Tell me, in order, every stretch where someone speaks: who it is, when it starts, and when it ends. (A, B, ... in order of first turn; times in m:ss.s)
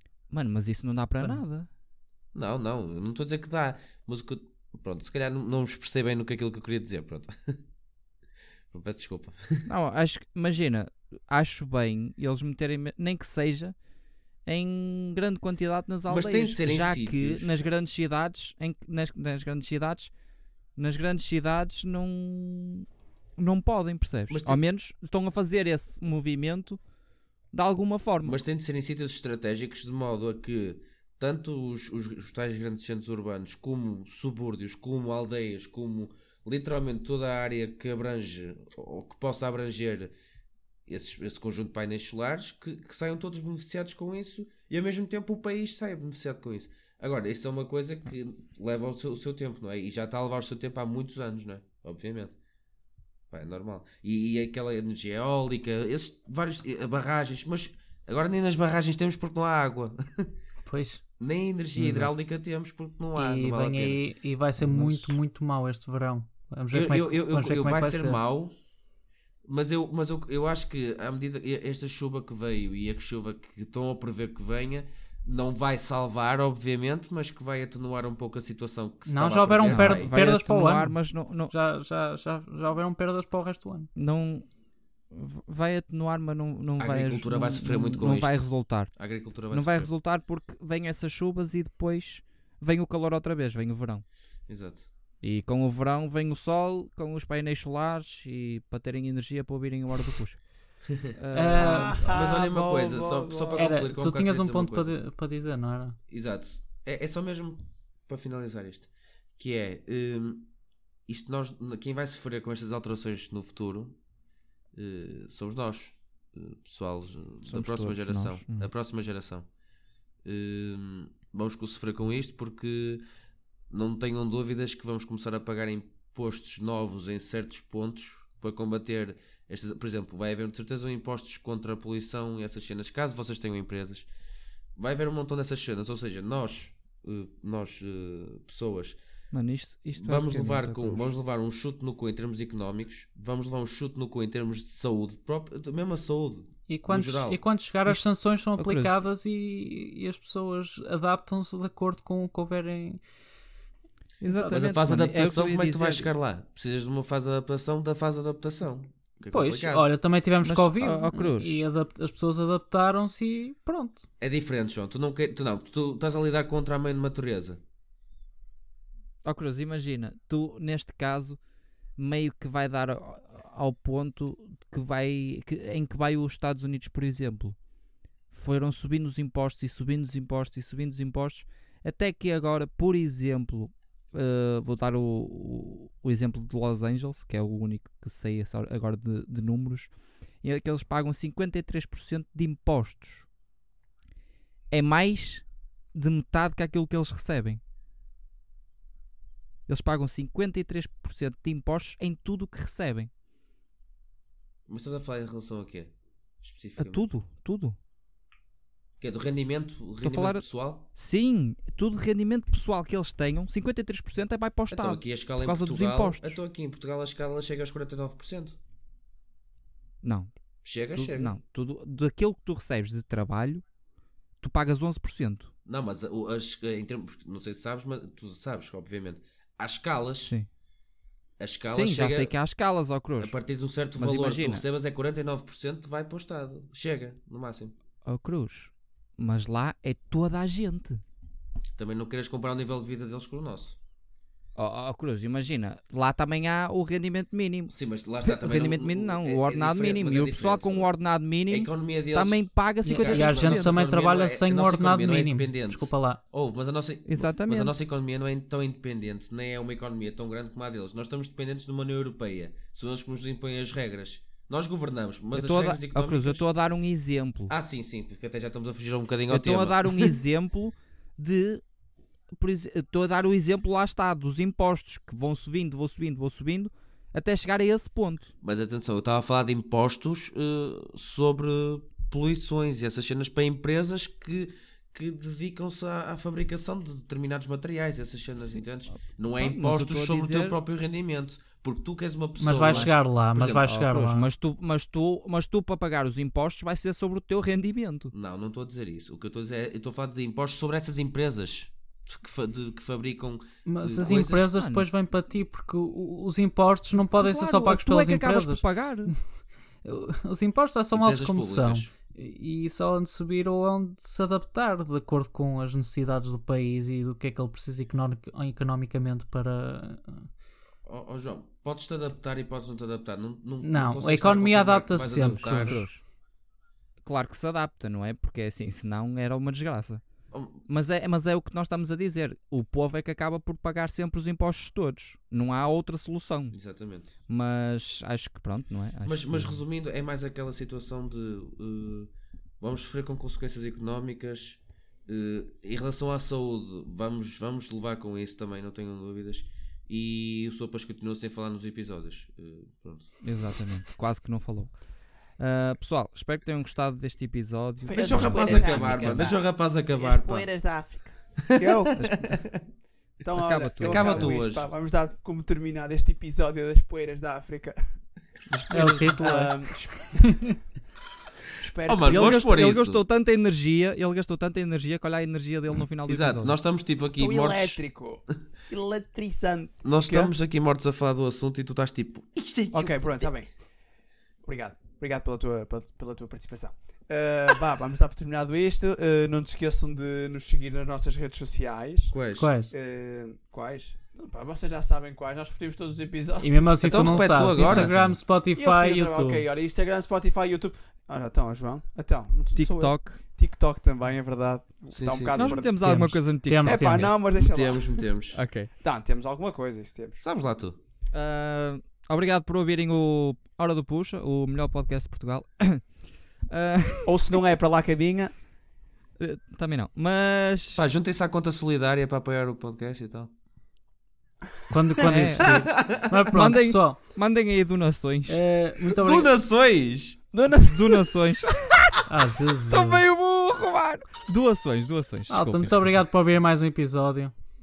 0:00.3-0:01.7 A
0:02.3-0:07.6 B
0:08.7-0:09.7 B
0:09.6-0:13.8 A
0:14.4-0:20.1 A
0:16.1-0:17.6 B
0:20.8-0:22.9 A
0:23.4-0:26.8 A
0:24.3-0:24.6 B
0:27.5-0:28.4 A
0:28.2-0:40.1 B
0:40.9-0:52.4 B
0:53.3-1:00.3 B
1:00.7-1:01.0 C
1:01.2-1:04.0 B
1:01.8-1:02.1 A
1:03.2-1:08.2 C
1:04.6-1:05.2 A
1:06.7-1:08.5 B
1:09.5-1:20.1 B
1:19.1-1:21.0 C
1:19.7-1:21.5 A
1:21.5-1:23.9 C
1:24.0-1:24.5 A
1:25.1-1:28.9 A
1:26.8-1:29.9 B
1:29.5-1:34.0 A
1:34.5-1:34.9 B
1:35.2-1:40.4 A
1:41.0-1:45.0 B
1:41.2-1:42.0 A
1:41.3-1:42.1 C
1:41.6-1:43.8 D
1:43.6-1:46.0 C
1:46.1-1:50.5 B
1:51.1-1:54.0 B
1:54.7-1:59.5 B
1:57.5-1:58.7 A
2:00.2-2:03.0 B
2:03.7-2:14.1 B
2:14.8-2:19.0 B
2:19.3-2:21.1 A
2:20.0-2:27.4 B
2:26.7-2:33.0 C
2:28.6-2:29.0 A
2:34.2-2:36.1 A
2:34.4-2:39.9 B
2:39.3-2:44.1 C
2:40.4-2:41.6 A
2:44.2-2:47.6 B
2:49.2-2:51.4 A
2:52.0-2:57.6 A
2:58.3-3:13.3 A
3:14.7-3:17.6 A
3:19.7-3:23.1 A
3:24.7-3:27.0 B
3:26.8-3:27.8 A
3:29.0-3:30.9 B
3:30.0-3:36.4 A
3:34.7-3:38.6 B
3:40.0-3:40.3 A
3:40.6-3:41.3 B
3:40.9-3:43.6 A
3:44.4-3:45.5 A
3:45.7-3:50.3 B
3:51.4-3:52.3 B
3:51.7-3:53.4 A
3:53.2-3:57.8 B
3:54.0-3:54.6 A
3:58.0-4:01.0 A
4:01.8-4:03.8 B
4:04.6-4:13.8 A
4:07.7-4:10.9 B
4:11.5-4:26.5 B
4:12.8-4:16.2 C
4:17.1-4:17.9 A
4:25.3-4:27.5 A
4:27.5-4:30.2 B
4:29.3-4:31.6 A
4:32.4-4:38.3 A
4:38.4-4:53.7 B
4:48.4-4:48.7 A
4:49.4-4:50.6 A
4:52.4-4:54.3 C
4:52.6-4:58.1 A
4:58.1-5:04.5 B
5:03.7-5:09.2 C
5:04.4-5:04.9 A
5:07.0-5:09.1 A
5:09.8-5:20.3 C
5:10.9-5:11.9 B
5:20.9-5:25.9 B
5:23.6-5:25.8 C
5:25.2-5:26.0 A
5:27.0-5:30.0 A
5:30.3-5:30.6 B
5:30.7-5:36.6 A
5:36.5-5:37.1 B
5:37.3-5:39.6 A
5:39.0-5:53.1 B
5:53.2-5:54.8 A
5:55.4-5:59.4 A
5:57.9-6:02.0 D
5:57.9-6:00.5 B
6:01.5-6:02.6 B
6:02.0-6:02.4 A
6:03.2-6:07.8 D
6:03.4-6:04.3 A
6:03.8-6:04.7 B
6:08.5-6:09.3 A
6:08.7-6:10.6 C
6:09.0-6:10.5 D
6:11.6-6:12.4 D
6:11.9-6:13.0 B
6:12.0-6:16.6 A
6:16.1-6:17.8 B
6:17.2-6:20.3 D
6:19.8-6:23.3 B
6:22.7-6:23.5 D
6:24.4-6:32.2 D
6:32.1-6:32.5 B
6:32.4-6:32.7 C
6:32.7-6:37.8 D
6:36.4-6:39.5 C
6:36.8-6:37.9 B
6:37.6-6:38.2 A
6:38.6-6:48.0 D
6:42.6-6:43.2 A
6:44.9-6:45.6 B
6:45.3-6:47.1 A
6:45.8-6:47.1 C
6:47.2-6:48.4 B
6:48.3-6:48.7 A
6:48.8-6:50.2 D
6:50.2-6:50.8 B
6:51.1-6:55.9 A
6:56.5-6:57.2 A
6:57.1-6:58.3 D
6:59.2-7:00.8 A
7:00.8-7:03.3 B
7:04.7-7:07.0 C
7:05.0-7:05.7 A
7:05.4-7:06.0 B
7:06.3-7:08.4 A
7:08.3-7:09.3 C
7:08.9-7:10.2 B
7:10.3-7:11.3 D
7:10.6-7:12.0 A
7:12.1-7:13.0 C
7:12.7-7:15.9 A
7:15.3-7:17.3 C